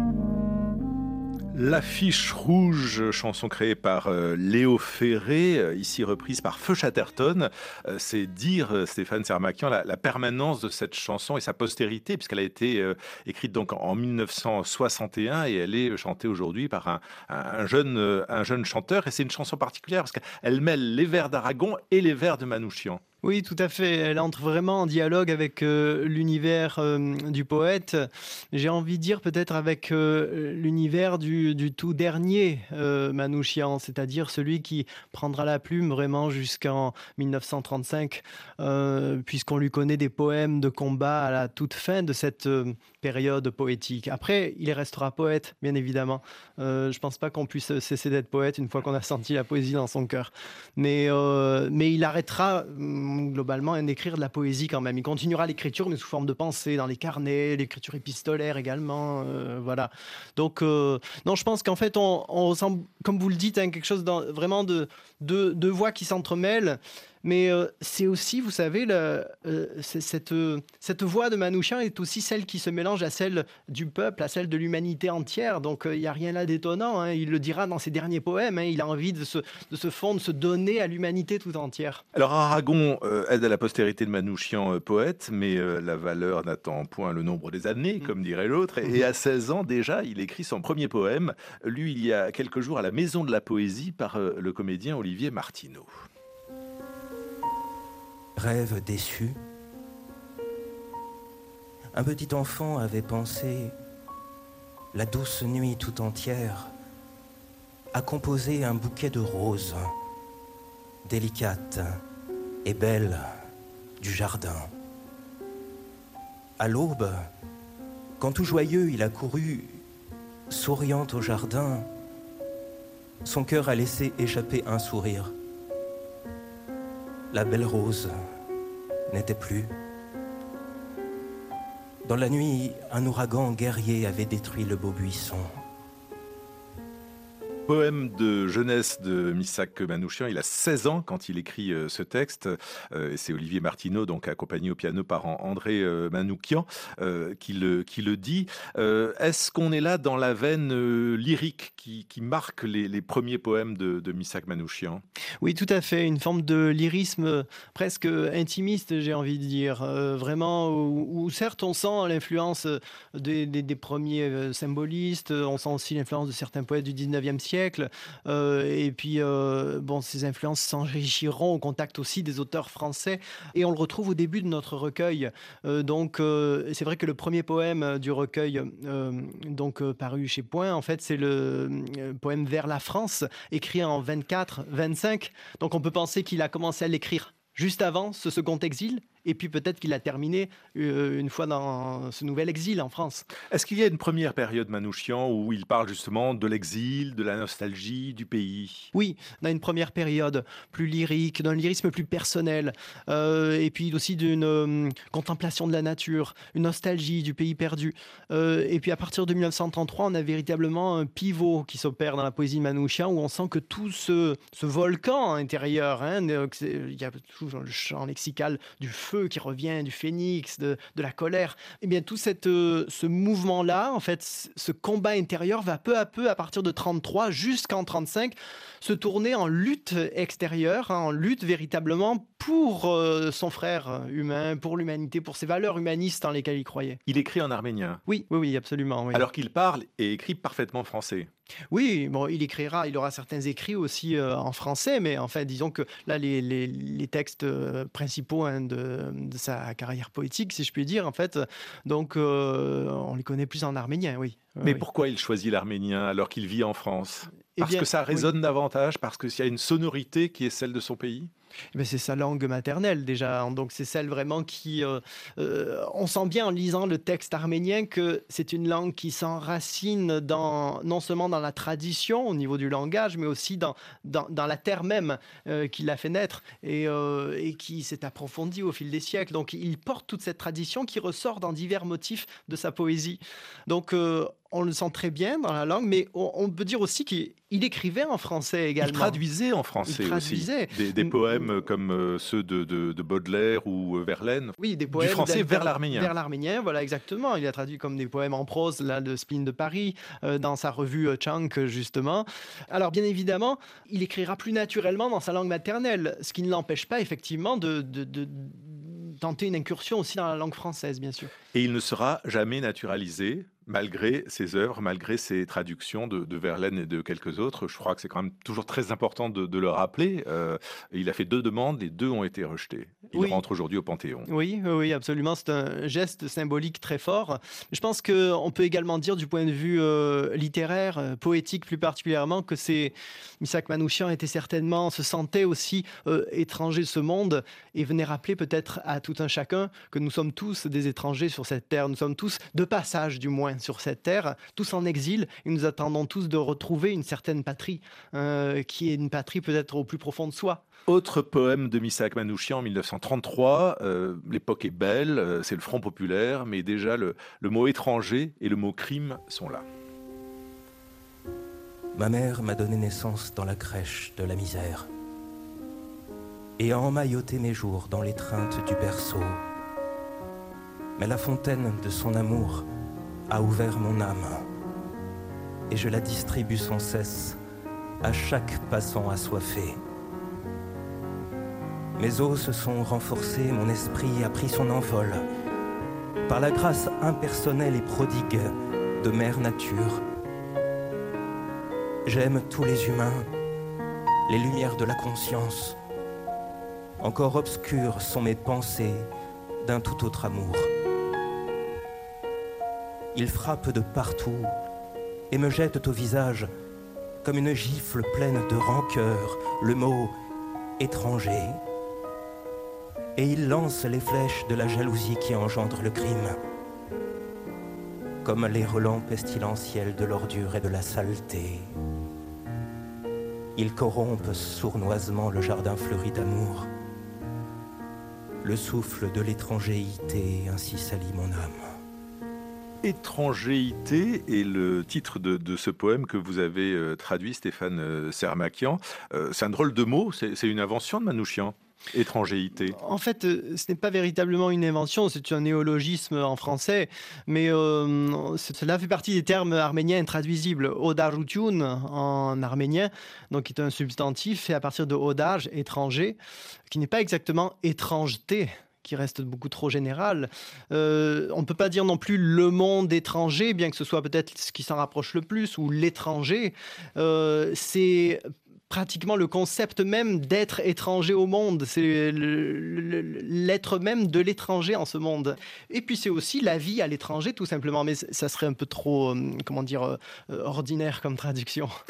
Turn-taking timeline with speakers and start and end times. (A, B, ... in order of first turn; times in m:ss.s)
0:01.5-0:23.0 A
0:23.2-1:22.0 B
1:22.1-1:35.9 A
1:38.4-1:39.4 C
1:41.9-1:43.7 C
1:44.9-1:46.7 C
1:47.9-1:49.9 C
1:51.0-1:52.0 C
1:52.6-1:53.3 C
1:54.0-1:54.7 C
1:56.6-1:57.3 C
1:58.2-1:59.8 C
2:00.5-2:01.9 C
2:03.2-2:05.3 C
2:07.3-2:08.1 C
2:09.1-2:09.7 C
2:12.0-2:15.6 C
2:17.7-2:35.0 A
2:35.4-3:13.2 B
3:13.5-3:18.9 A
3:18.9-3:57.0 B
3:57.1-3:58.0 A
3:58.1-3:59.2 B
3:59.1-4:01.3 A
4:01.7-4:14.8 B
4:14.6-4:21.3 A
4:17.6-4:18.3 B
4:21.7-4:49.2 B
4:48.8-4:56.1 A
4:49.9-4:51.1 B
4:54.6-5:11.3 B
5:11.5-5:24.3 A
5:23.2-5:23.4 B
5:24.3-5:50.6 B
5:50.9-5:59.6 A
6:01.9-6:04.9 C
6:06.6-6:09.4 C
6:11.0-6:12.6 C
6:13.3-6:14.4 C
6:15.7-6:17.4 C
6:18.0-6:19.8 C
6:22.0-6:25.2 C
6:26.3-6:30.0 C
6:32.0-6:33.3 C
6:34.3-6:35.8 C
6:37.0-6:39.1 C
6:39.6-6:40.7 C
6:43.1-6:44.5 C
6:45.3-6:46.5 C
6:47.2-6:50.1 C
6:50.8-6:51.6 C
6:53.2-6:56.4 C
6:58.2-7:01.7 C
7:03.6-7:06.7 C
7:08.4-7:11.7 C
7:12.8-7:22.8 A
7:22.8-7:36.2 B
7:36.7-8:01.7 B